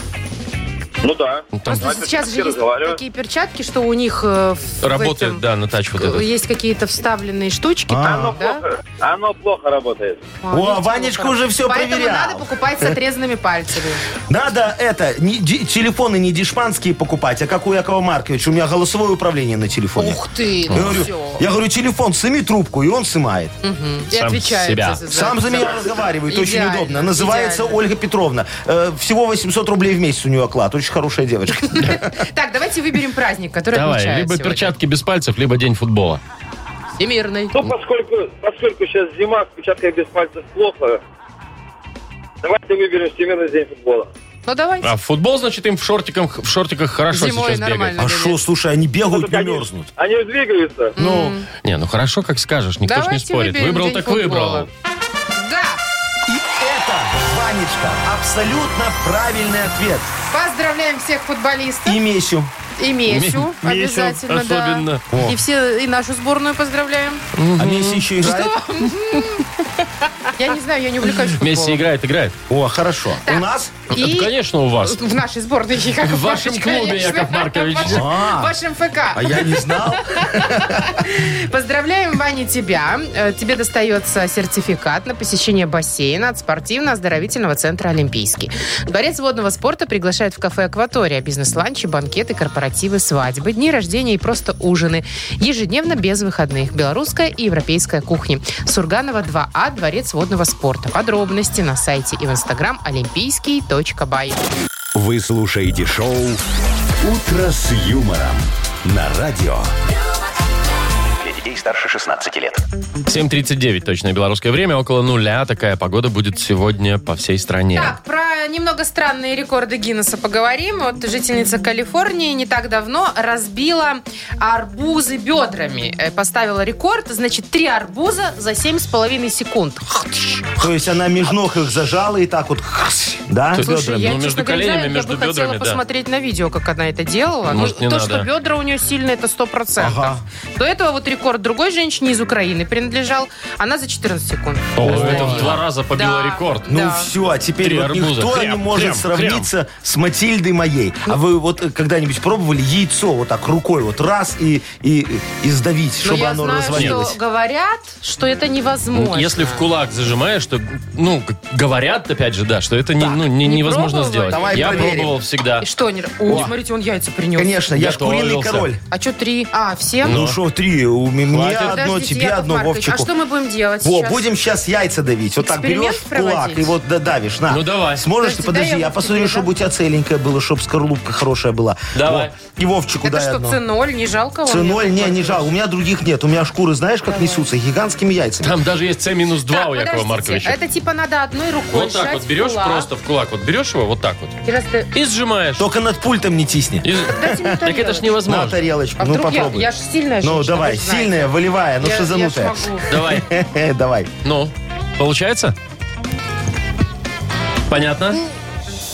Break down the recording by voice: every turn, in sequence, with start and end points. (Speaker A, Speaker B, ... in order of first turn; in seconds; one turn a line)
Speaker A: 1.0-3.0
Speaker B: 1.5-2.0
Speaker C: 1.7-5.4
Speaker B: 4.8-6.3
Speaker C: 6.0-8.6
Speaker D: 7.9-8.3
Speaker A: 8.1-10.2
Speaker C: 10.4-14.0
Speaker D: 10.5-12.9
Speaker D: 14.3-23.5
Speaker C: 20.0-21.4
Speaker B: 20.7-21.1
Speaker C: 23.6-27.8
Speaker B: 24.1-25.0
Speaker D: 25.1-32.1
Speaker C: 31.6-34.7
Speaker B: 33.7-36.2
Speaker C: 37.0-37.6
Speaker A: 37.5-41.0
Speaker A: 42.4-44.1
Speaker C: 44.5-44.9
Speaker B: 44.8-48.0
Speaker C: 47.1-48.4
Speaker D: 48.0-49.9
Speaker A: 49.1-51.0
Speaker D: 51.0-51.4
Speaker C: 51.0-51.5
Speaker B: 51.6-54.7
Speaker C: 52.8-54.7
Speaker C: 55.4-55.8
Speaker D: 56.3-60.1
Speaker C: 60.3-62.0
Speaker D: 61.9-62.5
Speaker C: 62.8-67.2
Speaker B: 63.1-65.0
Speaker D: 65.1-65.4
Speaker B: 67.4-68.1
Speaker D: 67.6-68.5
Speaker C: 68.2-69.7
Speaker C: 70.4-71.8
Speaker B: 71.2-72.4
Speaker D: 72.5-73.8
Speaker C: 73.2-104.4
Speaker B: 73.9-75.0
Speaker B: 76.0-78.1
Speaker D: 77.8-78.5
Speaker D: 79.1-81.0
Speaker E: 104.9-106.4
Speaker E: 107.0-109.7
Speaker E: 111.2-112.6
Speaker B: 113.1-118.0
Speaker C: 117.7-130.6
Speaker D: 130.6-134.1
Speaker B: 133.5-135.8
Speaker C: 133.6-147.1
Speaker B: 137.5-138.3
Speaker D: 139.8-140.2
Speaker B: 144.8-146.7
Speaker D: 144.8-145.6
Speaker D: 146.7-157.2
Speaker B: 147.6-149.5
Speaker C: 156.0-159.7
Speaker B: 156.7-157.0
Speaker B: 158.9-165.7
Speaker C: 163.0-165.0
Speaker D: 164.3-165.2
Speaker C: 165.6-167.5
Speaker D: 166.3-166.5
Speaker D: 167.4-168.8
Speaker B: 167.8-168.7
Speaker C: 168.9-170.2
Speaker D: 170.0-173.1
Speaker B: 170.0-170.4
Speaker B: 171.3-171.7
Speaker C: 171.5-174.3
Speaker D: 173.8-183.6
Speaker C: 175.4-176.8
Speaker B: 177.5-178.0
Speaker C: 178.1-179.5
Speaker B: 181.9-182.3
Speaker C: 183.0-185.5
Speaker D: 184.5-188.6
Speaker C: 187.1-187.4
Speaker B: 188.4-190.6
Speaker C: 189.5-192.9
Speaker B: 191.7-194.4
Speaker C: 194.4-194.9
Speaker B: 194.9-195.7
Speaker D: 195.6-197.6
Speaker B: 196.8-198.6
Speaker C: 197.0-198.2
Speaker D: 198.2-199.7
Speaker C: 199.0-202.9
Speaker D: 200.2-204.1
Speaker B: 202.9-203.3
Speaker B: 204.2-205.6
Speaker B: 207.7-208.2